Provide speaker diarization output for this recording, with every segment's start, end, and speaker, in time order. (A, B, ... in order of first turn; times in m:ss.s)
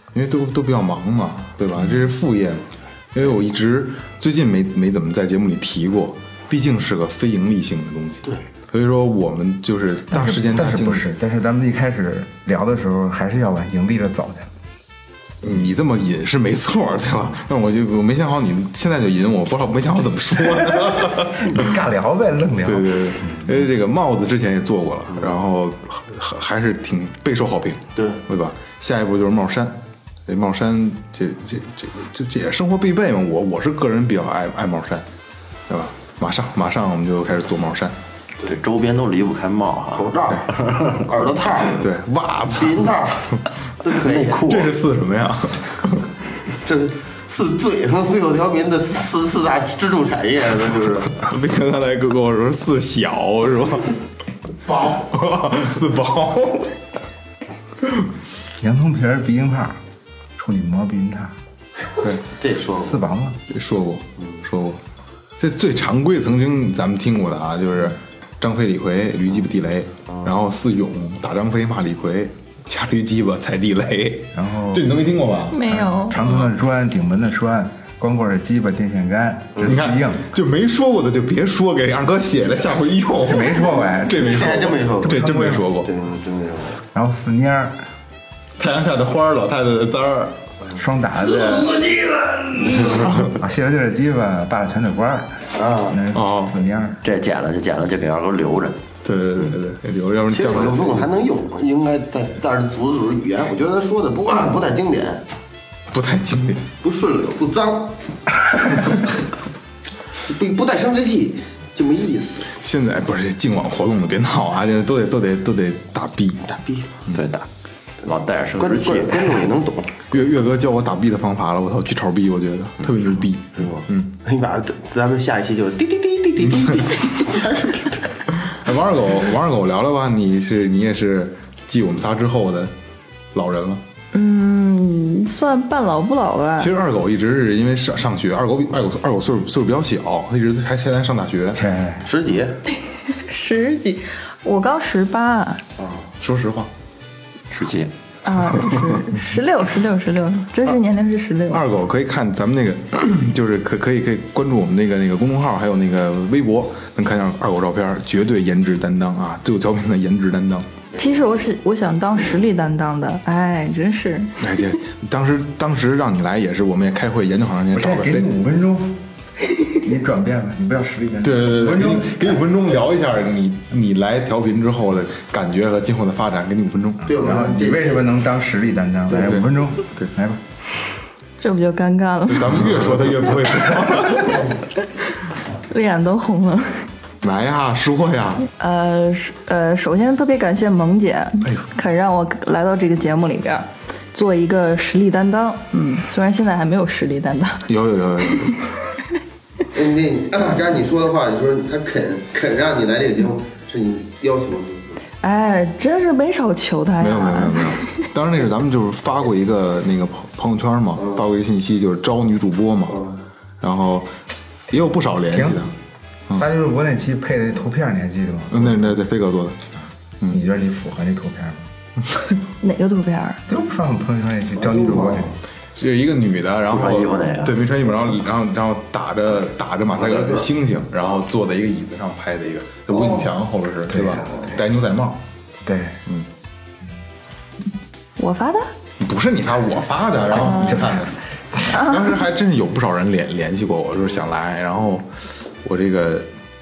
0:00.1-0:11.1 A
0:10.1-0:14.5 B
0:15.4-0:21.7 A
0:21.3-0:23.6 B
0:22.6-0:35.0 A
0:28.0-0:28.2 C
0:35.7-0:38.0 A
0:38.4-0:40.2 D
0:39.9-0:41.8 C
0:41.7-0:43.0 A
0:42.5-0:44.6 C
0:44.0-0:44.5 D
0:44.2-0:46.1 A
0:46.6-0:51.2 C
0:51.2-0:54.0 A
0:54.6-0:55.0 C
0:54.8-0:56.7 A
0:58.6-0:59.8 B
1:00.4-1:01.4 B
1:02.2-1:03.0 C
1:02.6-1:03.4 B
1:03.5-1:04.8 A
1:05.4-1:16.4 A
1:14.3-1:15.0 B
1:15.5-1:16.2 E
1:15.6-1:20.3 B
1:19.6-1:25.9 A
1:23.2-1:24.3 B
1:24.2-1:26.8 C
1:25.0-1:25.6 B
1:26.9-1:27.8 B
1:28.6-1:30.4 A
1:30.7-1:37.0 B
1:32.6-1:33.3 A
1:35.5-1:36.0 C
1:36.1-1:36.5 A
1:37.0-1:38.8 D
1:39.0-1:41.1 A
1:40.3-1:45.2 C
1:45.9-1:46.6 A
1:46.8-1:47.9 C
1:50.2-1:52.5 C
1:52.5-1:57.2 A
1:56.5-1:56.9 C
1:57.1-1:57.5 D
1:58.0-1:59.4 D
1:58.6-2:00.0 C
2:00.1-2:04.1 A
2:03.6-2:08.2 C
2:08.3-2:12.7 A
2:13.3-2:13.8 A
2:14.1-2:16.7 E
2:16.6-2:21.6 A
2:21.5-2:22.1 B
2:22.0-2:22.6 C
2:22.8-2:25.6 E
2:25.8-2:26.1 C
2:26.2-2:26.7 A
2:27.5-2:27.9 D
2:28.2-2:31.6 E
2:31.5-2:40.7 A
2:41.0-2:44.5 E
2:44.4-2:48.3 A
2:47.7-2:49.0 B
2:49.7-2:52.4 B
2:51.2-2:57.1 A
2:57.0-3:00.4 B
2:57.0-2:58.1 C
2:59.1-3:00.1 A
3:01.4-3:02.6 E
3:02.3-3:04.5 A
3:04.0-3:04.5 E
3:05.6-3:06.9 E
3:07.2-3:08.5 A
3:08.5-3:17.7 E
3:17.7-3:18.6 A
3:18.3-3:18.7 E
3:19.7-3:25.0 C
3:25.2-3:28.0 E
3:27.0-3:33.0 A
3:33.6-3:35.7 A
3:35.3-3:35.7 B
3:36.3-3:39.0 B
3:38.5-3:39.6 A
3:40.3-3:41.7 B
3:42.6-3:43.4 E
3:43.5-3:45.4 B
3:44.6-3:45.3 C
3:45.7-3:55.2 A
3:46.7-3:47.6 D
3:50.0-3:50.5 C
3:53.9-3:54.6 B
3:55.6-3:56.0 B
3:58.2-3:58.7 E
3:59.0-4:01.1 A
4:00.6-4:01.1 B
4:01.7-4:06.3 A